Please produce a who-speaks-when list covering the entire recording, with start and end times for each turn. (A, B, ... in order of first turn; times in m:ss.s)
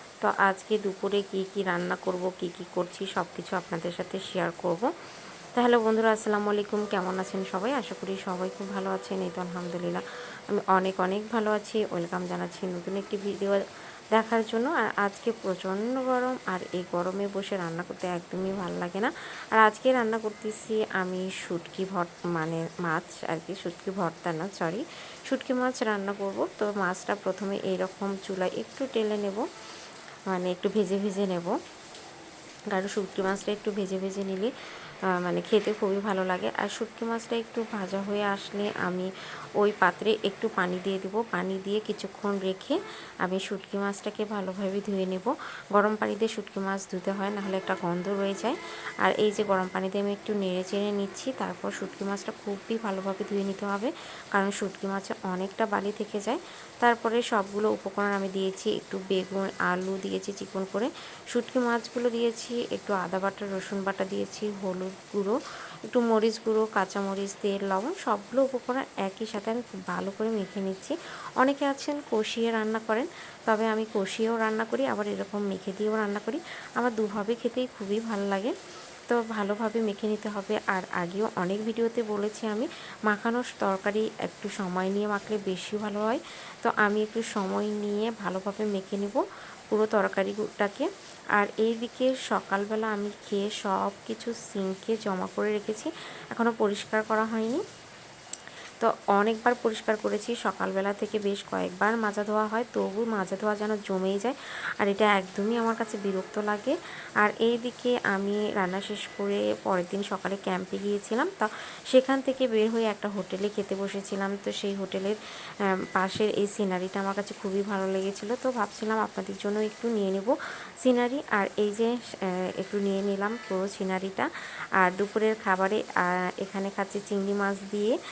0:00.2-0:04.9 A
0:05.6-0:29.4 A
0:30.3-0:31.6 A
0:32.7-0:34.5 A
0:35.2-1:05.4 A
1:05.9-1:18.6 A
1:19.1-1:37.6 A
1:38.8-1:55.2 A
1:56.0-2:04.3 A
2:04.8-2:08.0 A